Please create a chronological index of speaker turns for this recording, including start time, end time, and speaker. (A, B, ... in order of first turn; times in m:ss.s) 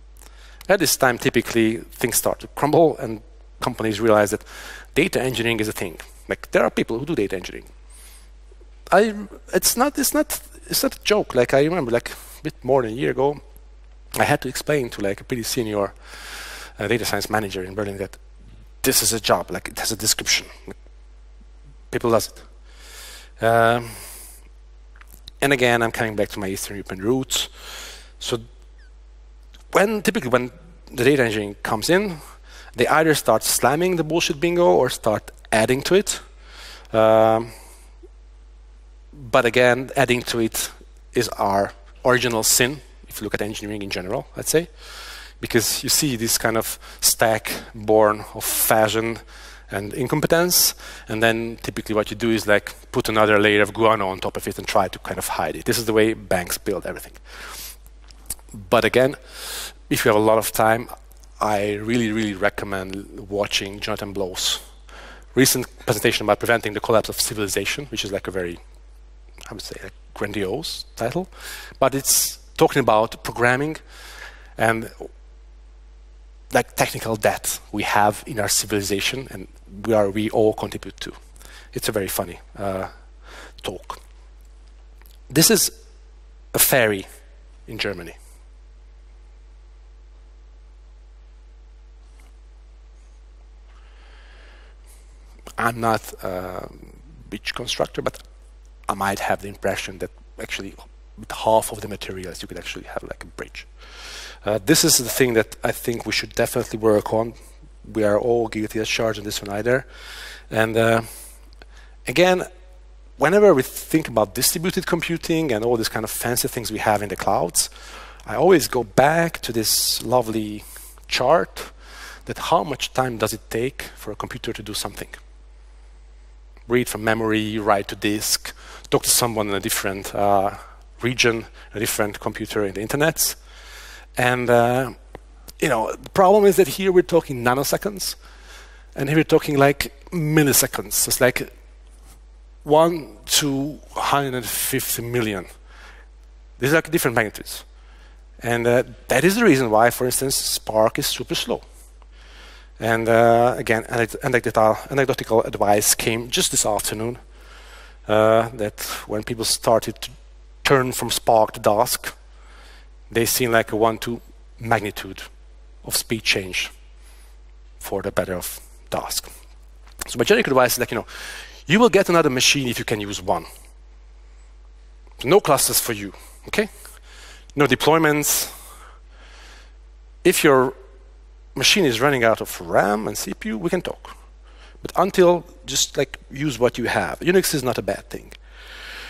0:00.7-0:07.7 A
0:08.9-0:13.4 A
0:14.2-0:18.2 A
0:18.8-0:20.7 A
0:21.9-0:22.4 A
0:23.4-0:24.0 A
0:25.4-0:27.5 A
0:28.2-0:28.4 A
0:29.7-0:32.2 A
0:32.8-0:36.2 A
0:36.9-0:37.5 A
0:39.1-0:44.7 A
0:45.4-0:57.7 A
0:58.5-1:00.9 A
1:01.4-1:04.6 A
1:05.3-1:08.6 A
1:09.5-1:13.8 A
1:14.6-1:15.1 A
1:16.5-1:21.2 A
1:21.7-1:22.9 A
1:23.6-1:24.0 A
1:25.3-1:25.7 A
1:26.5-1:27.0 A
1:27.7-1:28.2 A
1:35.6-1:38.2 A
1:38.9-1:43.7 A
1:44.4-1:49.9 A
1:50.5-1:51.1 A
1:52.0-1:52.5 A
1:53.2-1:57.7 A
1:58.2-2:01.7 A
2:02.2-2:05.2 A
2:06.7-2:13.4 A
2:14.2-2:15.0 A
2:15.6-2:18.2 A
2:18.9-2:21.5 A
2:22.6-2:25.5 A
2:26.6-2:27.6 A
2:28.4-2:31.6 A
2:32.8-2:37.2 A
2:38.1-2:42.2 A
2:43.1-2:45.3 A
2:45.8-2:46.7 A
2:47.8-2:49.3 A
2:50.1-2:53.5 A
2:55.2-2:56.7 A
2:57.5-2:58.5 A
3:00.2-3:00.7 A
3:01.5-3:04.1 A
3:04.8-3:08.3 A